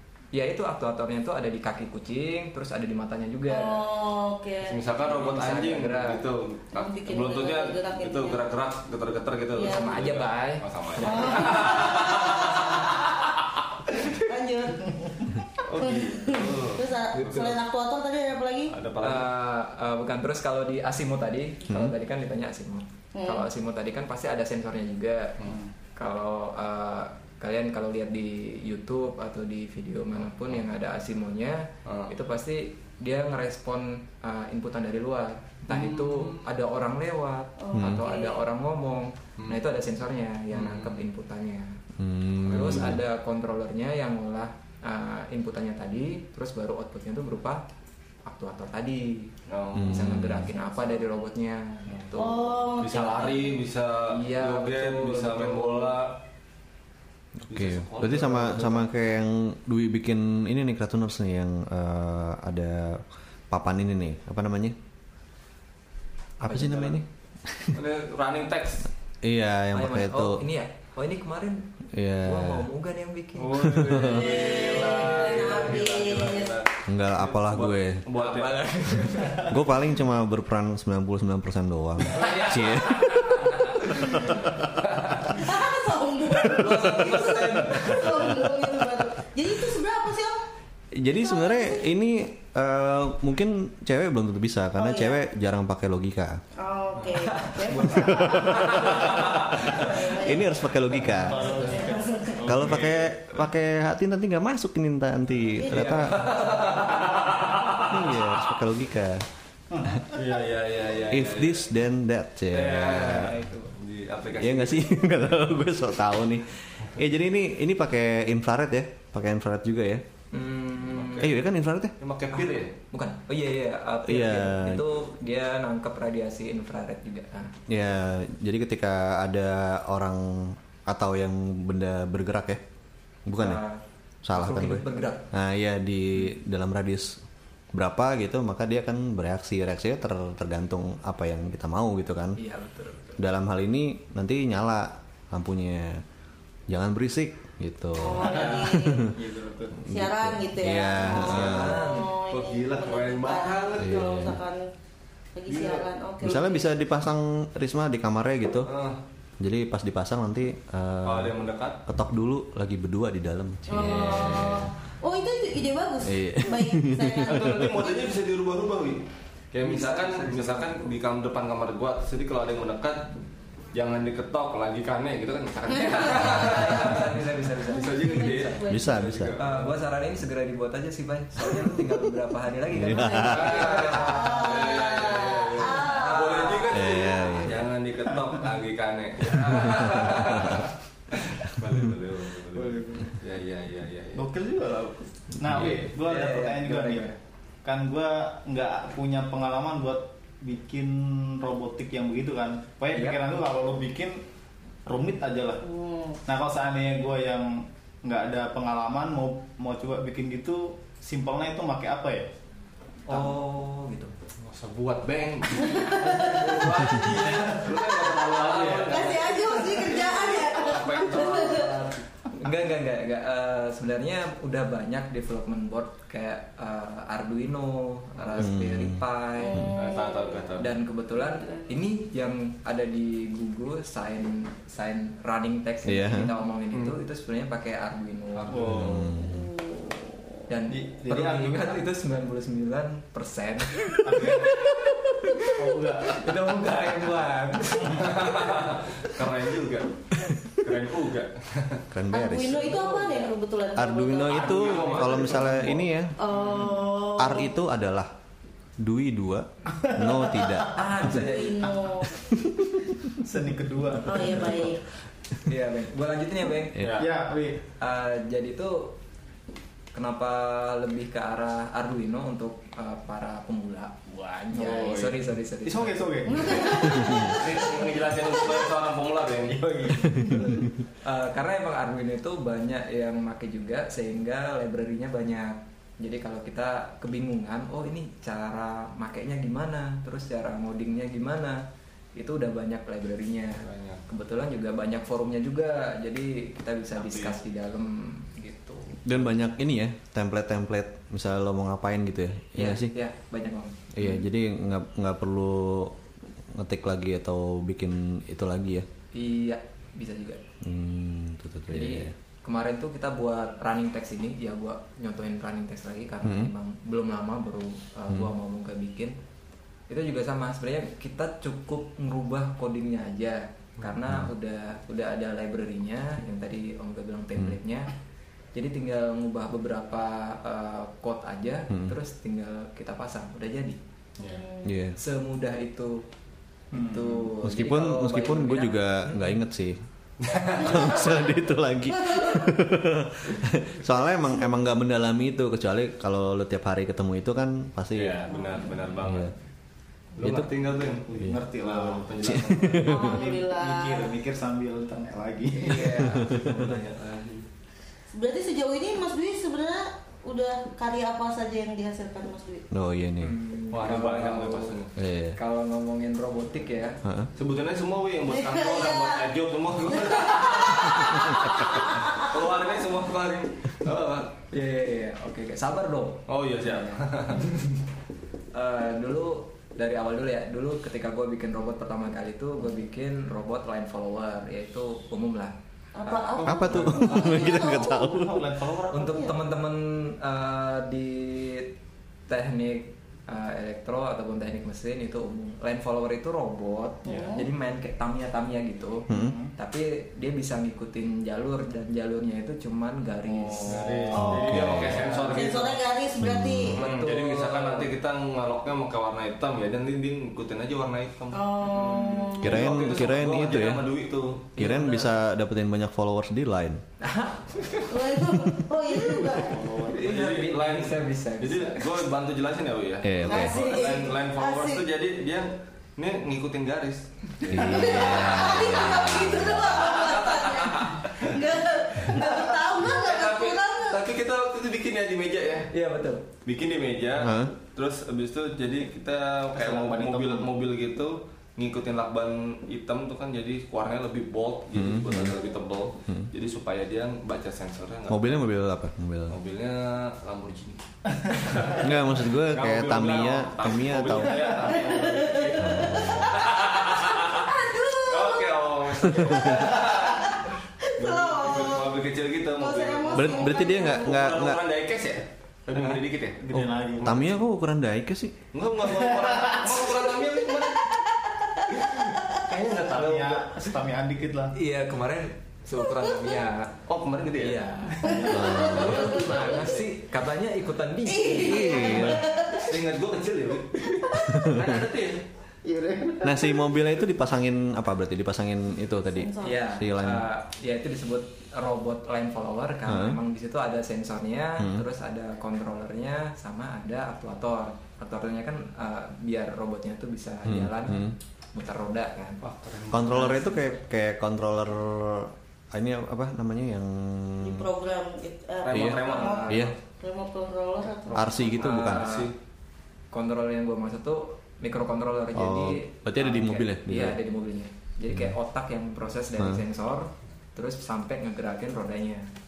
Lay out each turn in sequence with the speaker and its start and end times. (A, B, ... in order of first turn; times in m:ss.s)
0:00.3-0:03.8 A
0:03.5-0:04.8 B
0:04.6-0:14.2 C
0:05.0-0:06.2 A
0:06.7-0:08.5 B
0:09.6-0:09.8 B
0:09.6-0:11.7 A
0:11.0-0:13.0 B
0:14.1-0:18.8 B
0:15.6-0:17.6 C
0:17.1-0:17.6 A
0:18.7-0:19.3 C
0:19.0-0:25.3 A
0:23.2-0:23.5 B
0:26.0-0:41.8 A
0:31.8-0:32.1 C
0:35.7-0:36.4 C
0:37.6-0:38.4 B
0:37.7-0:38.0 D
0:40.5-0:41.0 C
0:42.0-0:43.0 D
0:42.5-0:47.6 A
0:42.5-0:43.0 C
0:48.2-0:49.3 A
0:49.5-0:50.0 C
0:49.8-0:50.5 D
0:49.8-0:52.6 A
0:52.2-0:53.5 B
0:52.8-0:56.2 C
0:54.1-0:56.0 A
0:57.5-0:58.9 C
0:57.5-1:04.8 D
1:06.4-1:07.8 D
1:06.4-1:07.0 A
1:07.7-1:08.9 C
1:09.2-1:10.4 D
1:09.7-1:11.6 A
1:11.9-1:12.7 D
1:12.2-1:14.1 A
1:13.4-1:18.5 C
1:13.6-1:14.1 D
1:14.1-1:16.6 B
1:16.9-1:18.0 D
1:18.2-1:19.6 A
1:19.4-1:23.5 D
1:22.2-1:24.5 A
1:25.1-1:25.4 C
1:25.4-1:30.4 B
1:26.5-1:28.5 C
1:26.5-1:28.1 A
1:31.0-1:36.4 D
1:31.2-1:31.9 B
1:34.8-1:35.2 B
1:36.6-1:40.6 B
1:37.3-1:39.8 A
1:37.7-1:38.1 C
1:38.2-1:38.8 D
1:39.7-1:41.6 D
1:41.1-1:42.9 E
1:41.4-1:41.9 A
1:41.6-1:42.4 B
1:42.4-1:46.2 D
1:42.6-1:42.9 C
1:45.6-1:47.5 A
1:46.2-1:48.3 C
1:47.8-1:49.3 D
1:49.7-1:50.2 E
1:50.1-1:51.6 C
1:51.1-1:53.4 D
1:52.6-1:55.2 C
1:52.6-1:53.7 A
1:54.4-2:00.0 D
2:00.3-2:01.3 A
2:00.8-2:01.4 C
2:01.2-2:01.9 D
2:02.0-2:02.7 C
2:02.9-2:07.5 A
2:04.1-2:04.8 D
2:07.7-2:12.6 D
2:13.3-2:13.6 D
2:13.4-2:15.2 A
2:14.2-2:17.2 D
2:17.7-2:22.4 D
2:22.4-2:23.2 A
2:23.2-2:26.0 D
2:26.7-2:29.1 D
2:28.0-2:29.1 B
2:28.3-2:28.6 C
2:28.3-2:28.6 A
2:29.2-2:29.8 E
2:29.8-2:34.6 B
2:29.9-2:31.8 D
2:31.1-2:32.1 A
2:31.5-2:34.1 C
2:33.8-2:34.4 D
2:35.4-2:36.6 B
2:35.5-2:35.9 C
2:36.2-2:38.7 D
2:38.7-2:39.0 C
2:39.4-2:44.7 D
2:41.0-2:41.8 C
2:43.7-2:48.1 B
2:46.0-2:47.7 D
2:47.2-2:53.1 C
2:49.6-2:50.9 A
2:53.7-2:59.8 C
2:55.8-2:56.4 B
2:56.0-2:58.6 A
2:57.7-2:59.0 B
2:58.7-2:59.3 D
2:59.4-3:04.6 A
3:02.7-3:03.7 D
3:02.9-3:07.0 B
3:03.2-3:14.3 C
3:05.8-3:06.7 A
3:06.7-3:07.7 D
3:09.6-3:10.7 D
3:12.6-3:13.0 A
3:14.1-3:17.1 E
3:15.5-3:15.8 D
3:15.5-3:15.9 C
3:16.0-3:17.2 A
3:17.6-3:24.2 E
3:22.9-3:23.2 A
3:24.9-3:25.6 E
3:25.6-3:26.2 B
3:26.2-3:32.3 E
3:33.1-3:34.1 A
3:34.4-3:41.8 C
3:35.6-3:36.8 B
3:36.0-3:37.4 A
3:38.4-3:39.8 A
3:38.7-3:41.9 B
3:40.9-3:49.7 A
3:48.2-3:48.5 C
3:48.4-3:49.0 D
3:49.4-3:50.6 B
3:49.8-3:50.7 C
3:50.6-3:58.7 A
3:55.9-3:56.3 D
3:58.4-3:59.1 C
3:58.5-3:59.1 E
3:58.7-3:59.5 D
3:59.1-4:00.4 B
4:00.5-4:04.5 A
4:00.7-4:01.8 E
4:04.0-4:04.5 E
4:05.2-4:08.8 A
4:05.5-4:06.3 E
4:07.9-4:11.8 C
4:11.9-4:12.8 D
4:12.1-4:15.3 B
4:12.7-4:13.3 A
4:13.8-4:16.2 D
4:14.3-4:15.9 C
4:16.2-4:17.6 B
4:16.3-4:16.8 A
4:17.2-4:18.1 D
4:18.8-4:21.2 D
4:19.8-4:20.6 E
4:20.7-4:21.9 A
4:20.8-4:22.2 B
4:22.3-4:23.2 D
4:23.2-4:24.7 E
4:24.1-4:24.8 B
4:25.4-4:27.0 A
4:26.8-4:27.1 C
4:27.0-4:27.6 E
4:27.8-4:29.0 A
4:29.9-4:36.7 A
4:34.5-4:37.1 E
4:36.3-4:38.7 B
4:37.0-4:39.9 C
4:39.5-4:40.7 E
4:40.2-4:40.4 D
4:41.0-4:51.6 A
4:52.2-4:59.3 A
4:53.6-4:54.0 C
4:57.0-4:57.4 C
4:59.0-5:02.9 D
5:02.6-5:04.2 A
5:03.9-5:06.0 D
5:06.5-5:08.9 D
5:09.1-5:10.4 A
5:10.6-5:12.1 D
5:11.7-5:19.2 A
5:16.2-5:16.5 D
5:19.9-5:27.9 A
5:28.5-5:33.8 A
5:34.2-5:34.8 B
5:34.6-5:35.0 D
5:35.0-5:36.0 A
5:36.7-5:37.3 E
5:36.7-5:39.4 A
5:37.4-5:39.8 D
5:40.2-5:40.9 C
5:40.6-5:48.2 D
5:42.1-5:42.5 B
5:48.0-5:49.3 C
5:48.3-5:48.6 B
5:49.0-5:49.3 D
5:50.2-5:53.1 C
5:50.2-5:50.5 D
5:50.9-5:56.1 E
5:51.1-5:51.4 D
5:52.2-5:53.1 D
5:52.8-5:54.2 B
5:55.6-5:57.0 A
5:56.1-5:56.6 D
5:56.2-5:57.5 C
5:58.1-6:02.7 B
6:02.7-6:03.3 D
6:03.2-6:04.8 A
6:03.7-6:05.0 C
6:05.0-6:05.4 D
6:05.4-6:07.0 A
6:07.0-6:07.3 D
6:07.4-6:14.4 C
6:08.3-6:09.3 B
6:09.9-6:12.4 B
6:14.5-6:17.8 A
6:16.3-6:17.4 C
6:18.5-6:27.2 A
6:26.0-6:28.3 B
6:26.4-6:27.1 C
6:26.5-6:28.4 D
6:28.1-6:29.1 E
6:28.9-6:31.7 A
6:29.0-6:29.4 B
6:32.3-6:45.5 A
6:37.1-6:37.5 B
6:39.1-6:39.4 D
6:39.1-6:39.5 E
6:43.3-6:44.4 E
6:43.7-6:45.8 C
6:44.1-6:45.0 D
6:45.3-6:46.8 B
6:46.2-6:46.8 D
6:46.8-6:47.9 A
6:46.8-6:54.6 C
6:51.3-6:52.7 B
6:51.6-6:52.4 A
6:52.4-6:53.9 D
6:54.6-6:56.8 D
6:54.6-6:55.1 A
6:57.0-6:57.8 A
6:57.9-6:59.7 B
6:59.0-7:01.8 A
6:59.5-7:07.1 C
7:03.0-7:03.7 D
7:03.2-7:04.8 B
7:07.4-7:09.7 D
7:07.5-7:14.0 B
7:07.6-7:09.0 C
7:09.5-7:11.3 C
7:12.1-7:15.7 C
7:15.7-7:16.2 A
7:16.4-7:28.4 C
7:17.2-7:17.5 D
7:19.5-7:20.5 E
7:24.8-7:25.3 D
7:28.1-7:29.4 D
7:29.3-7:46.4 C
7:31.7-7:34.6 D
7:34.7-7:36.3 B
7:35.6-7:36.4 D
7:37.2-7:42.0 B
7:42.5-7:44.2 B
7:43.1-7:44.6 D
7:45.7-7:46.0 A
7:46.4-7:47.2 E
7:46.5-7:48.4 D
7:47.0-7:47.3 C
7:48.5-7:51.0 C
7:48.9-7:49.7 E
7:50.5-7:52.5 B
7:51.7-7:53.5 C
7:52.8-7:54.5 E
7:54.6-7:56.8 A
7:55.8-7:56.4 B
7:56.9-7:57.6 C
7:57.4-8:02.2 A
7:58.0-7:59.8 B
7:58.3-7:59.0 D
8:01.1-8:02.8 B
8:01.4-8:02.3 D
8:02.6-8:05.2 C
8:03.9-8:04.5 B
8:04.3-8:04.8 D
8:05.7-8:06.4 E
8:06.2-8:10.3 D
8:09.2-8:09.6 B
8:09.4-8:22.4 A
8:12.9-8:13.2 D
8:14.6-8:14.8 D
8:20.5-8:21.2 D
8:22.4-8:23.5 C
8:22.9-8:27.7 D
8:23.1-8:23.7 A
8:27.4-8:31.5 B
8:28.6-8:29.6 C
8:28.7-8:29.7 D
8:29.0-8:29.7 A
8:31.1-8:32.3 C
8:31.1-8:32.1 D
8:31.6-8:32.3 A
8:33.1-8:42.3 A
8:35.4-8:37.2 D
8:38.1-8:38.4 D
8:39.4-8:39.6 D